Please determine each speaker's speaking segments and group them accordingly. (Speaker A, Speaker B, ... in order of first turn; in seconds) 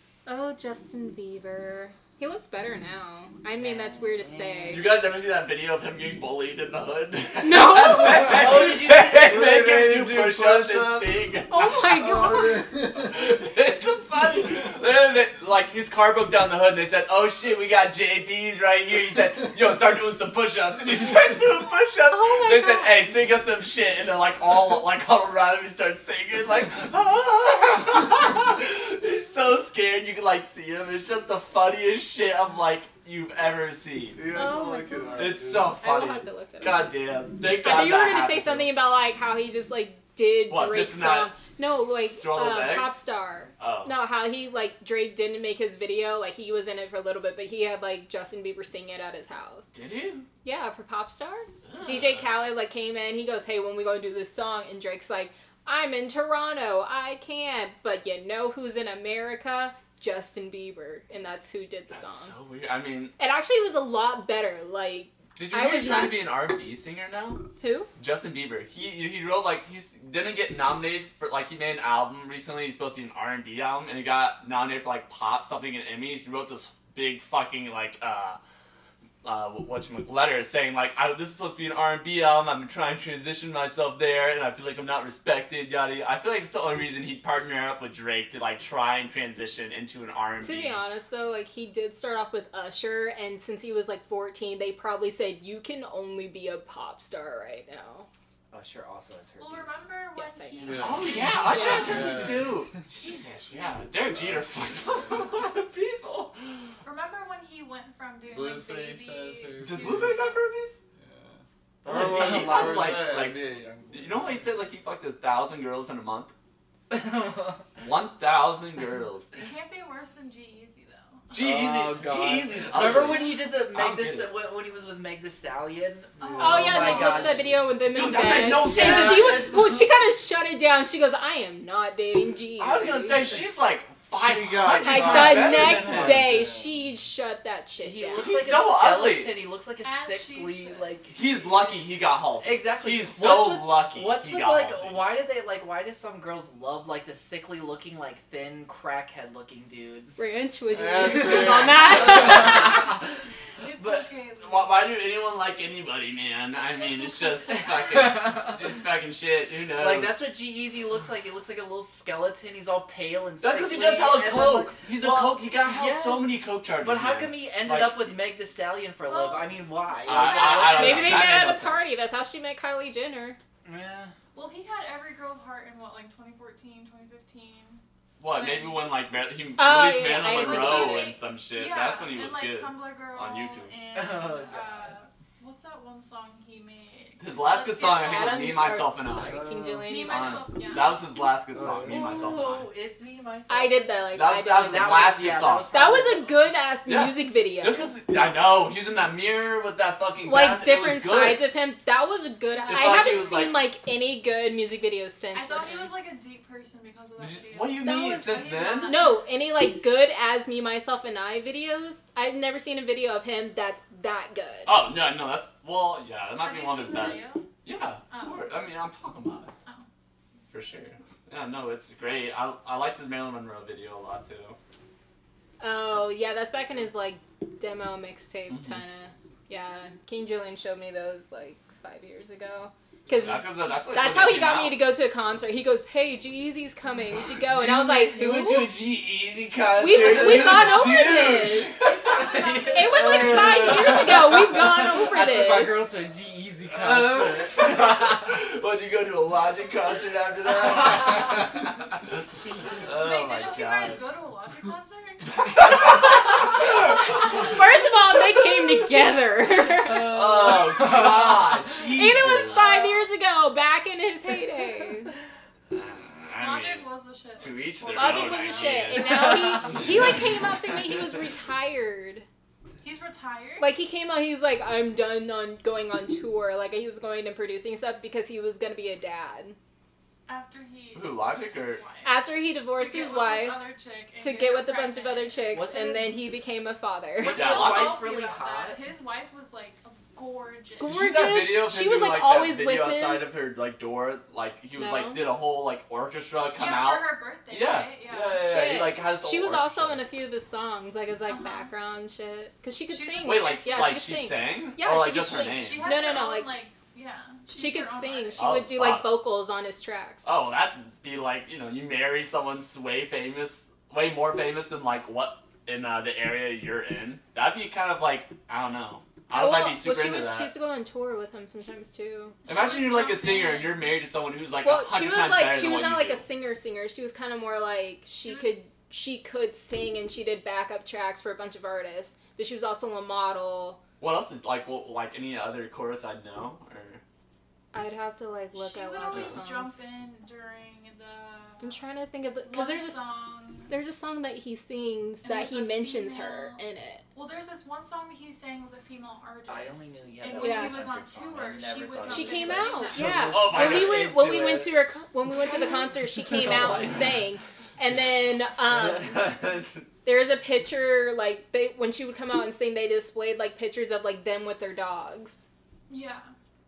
Speaker A: 0.3-4.9, 7.4-8.6, 11.5-12.7, 22.1-23.0, 34.3-36.9, 37.6-49.8, 50.4-62.4, 63.2-66.3, 67.6-67.9, 90.4-98.1, 100.2-100.9, 101.6-101.9, 126.4-133.3, 134.8-138.3, 150.2-152.9, 170.3-173.4, 179.6-181.2, 187.8-190.5, 193.5-197.9, 200.2-205.9, 207.8-214.8, 225.6-238.8, 239.8-241.8, 242.6-245.9, 257.2-260.2, 261.9-265.1, 267.9-272.3, 273.6-279.6, 282.0-283.6, 284.2-287.5, 290.8-293.3, 294.8-295.3, 298.4-306.6, 307.5-310.3, 319.3-322.4, 324.6-333.8, 337.7-339.8, 341.6-343.1, 343.7-347.1, 350.4-350.8, 352.0-359.3, 360.1-365.5
Speaker B: 3.6-4.9, 8.3-9.3, 98.5-99.8, 111.9-113.0, 116.9-117.6, 121.4-127.5, 128.5-129.9, 137.8-141.2, 142.4-150.2, 157.8-158.6, 159.4-171.3, 173.6-174.1, 183.9-184.9, 191.9-196.4, 242.2-242.7, 245.0-247.3, 285.5-286.2, 287.2-288.8, 349.5-353.9
Speaker C: 4.7-12.5, 13.0-34.2, 35.2-38.7, 40.5-41.3, 42.2-43.0, 43.6-43.9, 49.7-50.3, 51.7-52.3, 61.9-63.1, 65.4-67.5, 68.0-78.4, 79.2-90.8, 100.8-106.8, 109.6-110.8, 111.9-116.3, 117.8-119.3, 121.3-124.3, 127.9-129.6, 132.6-136.3, 138.2-139.3, 141.1-145.2, 152.1-152.9, 153.8-160.2, 163.4-168.1, 170.1-171.8, 178.2-183.7, 187.2-189.4, 190.1-192.7, 194.1-195.7, 196.9-201.4, 202.7-203.6, 207.2-209.0, 214.7-219.5, 220.5-224.6, 228.5-228.8, 233.1-234.8, 237.5-244.9, 246.7-252.2, 252.8-254.0, 255.4-257.6, 259.9-262.6, 265.7-266.9, 267.4-271.1, 280.9-281.8, 287.3-288.0, 290.9-300.0, 303.2-306.0, 308.4-309.1, 310.2-320.5, 322.5-326.2, 334.0-337.0, 352.9-354.8, 356.3-357.0, 358.7-359.9
Speaker D: 8.6-13.4, 34.1-35.8, 100.6-102.7, 104.1-105.3, 108.3-110.2, 111.0-114.5, 134.1-136.8, 150.7-152.6, 189.1-189.9, 191.5-192.3, 243.0-244.5, 247.1-247.5
Speaker E: 99.4-102.3, 106.8-110.3, 119.3-121.3, 123.0-123.3, 126.2-127.5, 139.8-141.0, 152.2-153.0, 153.6-155.0, 169.0-170.8, 174.3-178.8, 180.2-188.9, 189.8-191.1, 202.6-203.0, 205.3-209.2, 216.4-217.4, 218.1-218.7, 240.0-241.1, 241.7-243.8, 252.8-256.0, 262.1-262.9, 266.4-270.1, 272.8-273.7, 280.3-285.7, 287.3-291.1, 296.5-298.5, 301.3-301.7, 302.9-304.1, 305.3-308.7, 322.4-323.9, 328.2-328.6, 338.5-341.8, 342.4-343.7, 345.2-346.6, 347.1-353.6, 355.6-355.8, 365.9-366.3